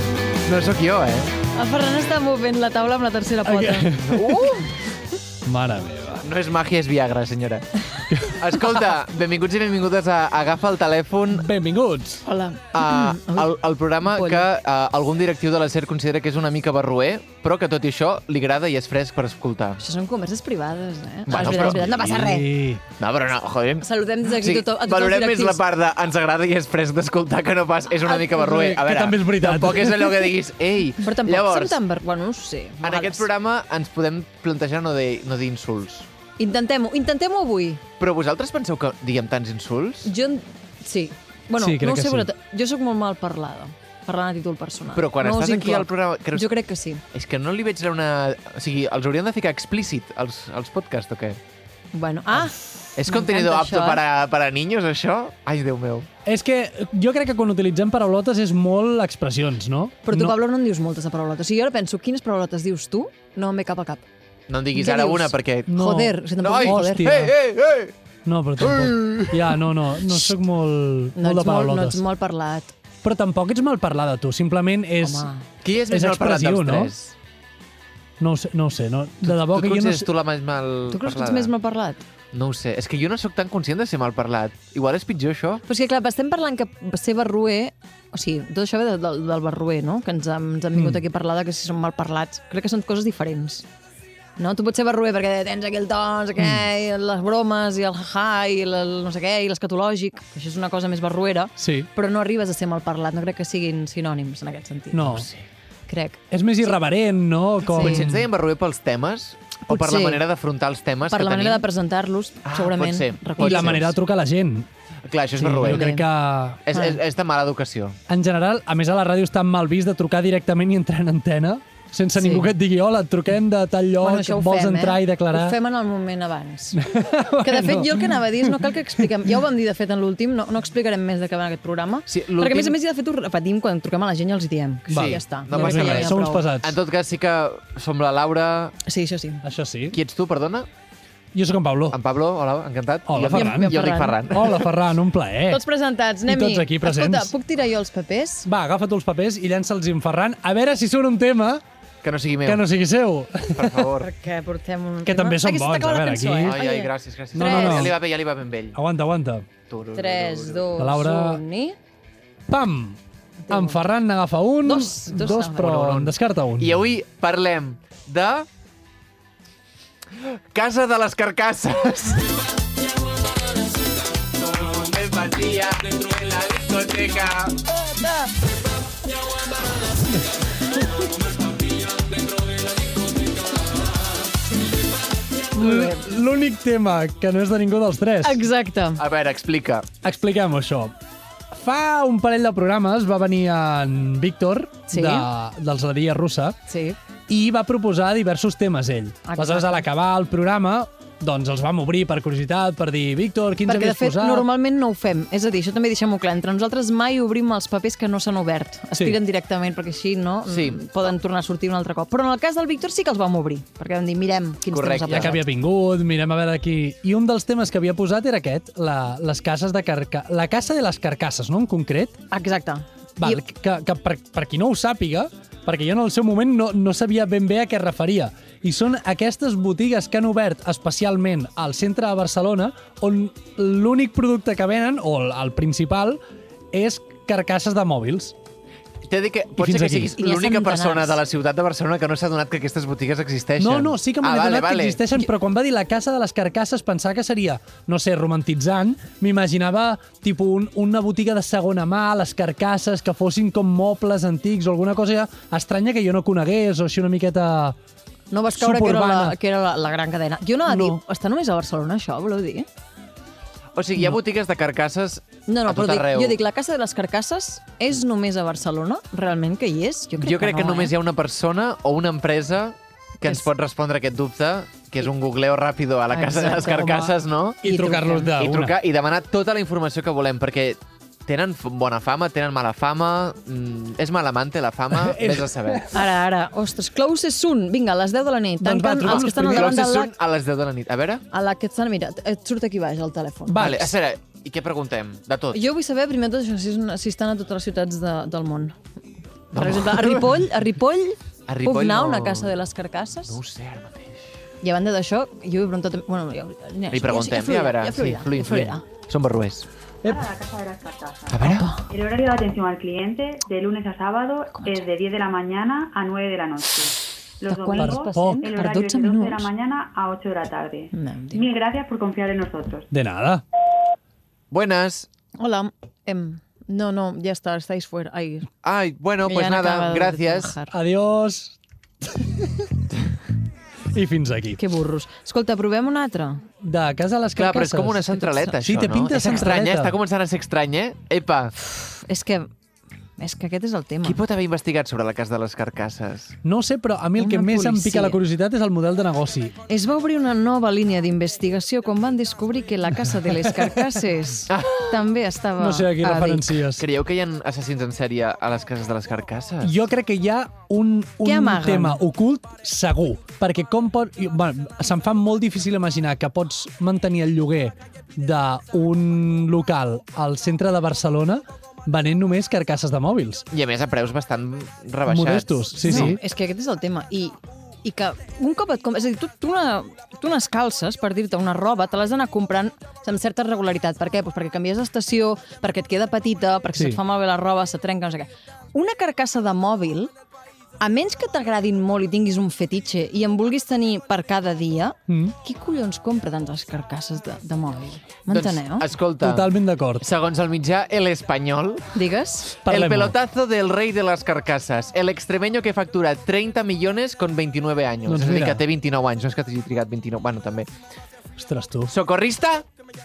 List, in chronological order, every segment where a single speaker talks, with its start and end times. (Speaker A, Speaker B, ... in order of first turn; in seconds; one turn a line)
Speaker A: 0.5-1.4
Speaker B: 1.5-4.6
Speaker C: 3.5-4.6
Speaker A: 4.1-4.5
Speaker C: 5.5-6.2
Speaker A: 6.2-11.5
Speaker C: 8.1-8.4
Speaker C: 11.3-12.2
Speaker B: 12.2-14.4
Speaker A: 12.7-19.8
Speaker B: 19.8-22.5
Speaker A: 21.3-22.1
Speaker C: 21.3-22.8
Speaker A: 23.0-31.8
Speaker B: 23.8-25.6
Speaker C: 28.2-30.3
Speaker B: 31.0-33.3
Speaker A: 32.8-36.1
Speaker B: 36.4-37.8
Speaker A: 38.0-40.1
Speaker B: 40.0-47.0
Speaker C: 41.6-42.3
Speaker A: 44.9-46.5
Speaker A: 47.1-51.4
Speaker B: 51.9-54.0
Speaker A: 53.0-56.1
Speaker C: 56.3-60.4
Speaker B: 60.0-64.0
Speaker A: 64.5-65.7
Speaker B: 64.8-67.3
Speaker C: 65.7-67.3
Speaker A: 66.4-68.0
Speaker C: 68.3-72.0
Speaker A: 68.6-69.7
Speaker B: 71.2-72.7
Speaker C: 73.0-75.3
Speaker B: 75.0-75.5
Speaker A: 75.6-77.2
Speaker C: 75.9-76.9
Speaker C: 78.2-80.1
Speaker A: 79.2-81.5
Speaker B: 80.9-82.0
Speaker A: 82.3-85.6
Speaker B: 85.7-93.7
Speaker B: 94.4-105.2
Speaker C: 101.6-101.9
Speaker C: 104.9-105.3
Speaker B: 105.9-106.8
Speaker C: 106.3-108.3
Speaker B: 107.6-108.1
Speaker A: 107.8-111.7
Speaker B: 109.7-110.2
Speaker B: 111.1-113.8
Speaker A: 112.5-114.0
Speaker C: 113.4-114.7
Speaker A: 115.0-115.9
Speaker C: 115.4-116.6
Speaker B: 115.7-116.1
Speaker A: 116.7-118.0
Speaker B: 116.7-117.0
Speaker C: 118.1-125.6
Speaker B: 122.2-122.5
Speaker B: 124.0-126.9
Speaker C: 126.8-129.1
Speaker B: 127.4-136.5
Speaker A: 132.1-132.8
Speaker A: 134.9-138.8
Speaker C: 134.9-136.8
Speaker B: 138.9-139.4
Speaker C: 139.4-140.0
Speaker A: 139.9-140.7
Speaker C: 141.3-142.0
Speaker A: 141.9-144.7
Speaker C: 143.1-145.6
Speaker B: 143.3-144.2
Speaker B: 145.5-148.5
Speaker C: 146.3-147.3
Speaker C: 148.5-151.6
Speaker A: 152.0-152.7
Speaker C: 152.4-153.8
Speaker A: 153.5-154.1
Speaker B: 154.0-157.9
Speaker C: 155.1-156.6
Speaker A: 156.4-158.8
Speaker C: 157.3-158.0
Speaker C: 158.8-159.5
Speaker A: 159.7-160.7
Speaker B: 159.9-161.8
Speaker C: 160.8-161.4
Speaker C: 162.5-163.0
Speaker B: 163.5-163.8
Speaker C: 163.5-166.8
Speaker B: 164.6-165.7
Speaker A: 165.6-168.5
Speaker A: 170.2-172.4
Speaker A: 174.3-177.6
Speaker B: 185.6-186.0
Speaker C: 185.6-188.4
Speaker B: 188.2-189.0
Speaker A: 189.0-189.9
Speaker C: 190.0-190.9
Speaker C: 191.5-196.6
Speaker B: 194.9-195.3
Speaker B: 196.7-197.0
Speaker C: 197.3-204.5
Speaker B: 199.3-199.9
Speaker B: 203.7-215.4
Speaker A: 210.5-210.9
Speaker A: 214.7-215.4
Speaker C: 215.1-222.2
Speaker B: 222.3-223.4
Speaker C: 223.2-236.2
Speaker C: 236.7-238.3
Speaker A: 239.1-245.1
Speaker C: 239.6-240.1
Speaker B: 240.2-241.2
Speaker C: 243.6-257.8
Speaker B: 258.3-262.7
Speaker C: 258.6-259.4
Speaker C: 260.7-261.0
Speaker A: 263.8-266.4
Speaker B: 265.5-270.9
Speaker A: 270.2-277.6
Speaker B: 276.1-278.3
Speaker C: 277.6-278.8
Speaker A: 278.3-285.9
Speaker C: 285.0-286.0
Speaker B: 285.9-290.1
Speaker C: 288.6-289.8
Speaker A: 289.0-291.2
Speaker B: 291.3-293.9
Speaker C: 293.5-293.9
Speaker A: 293.6-295.7
Speaker B: 295.5-298.8
Speaker A: 299.5-300.4
Speaker B: 299.6-303.4
Speaker A: 301.5-302.6
Speaker A: 303.3-304.2
Speaker B: 304.6-308.8
Speaker A: 306.9-309.7
Speaker D: 310.0-322.9
Speaker A: 311.3-311.7
Speaker B: 311.4-311.9
Speaker B: 317.5-319.5
Speaker C: 317.8-318.5
Speaker B: 320.9-321.4
Speaker C: 322.9-323.4
Speaker A: 324.5-325.1
Speaker B: 325.4-328.5
Speaker A: 328.6-330.5
Speaker B: 329.2-330.8
Speaker C: 330.7-331.6
Speaker C: 332.1-332.7
Speaker C: 333.9-334.6
Speaker B: 334.6-336.5
Speaker C: 336.6-338.1
Speaker A: 337.4-341.5
Speaker B: 337.9-338.6
Speaker C: 338.6-339.9
Speaker B: 341.6-342.5
Speaker B: 343.2-344.2
Speaker A: 344.0-346.4
Speaker C: 346.4-349.6
Speaker B: 347.2-348.2
Speaker B: 349.7-356.6
Speaker A: 354.5-355.0
Speaker C: 355.6-356.9
Speaker A: 356.8-359.8
Speaker C: 359.6-373.5
Speaker B: 361.2-362.0
Speaker A: 373.5-376.2
Speaker C: 375.1-376.2
Speaker B: 375.8-390.1
Speaker B: 390.8-398.9
Speaker C: 395.1-395.4
Speaker A: 398.3-402.0
Speaker C: 399.2-400.1
Speaker B: 401.9-402.6
Speaker C: 402.6-403.1
Speaker A: 402.6-410.7
Speaker C: 408.1-408.6
Speaker C: 411.4-411.9
Speaker A: 411.9-412.6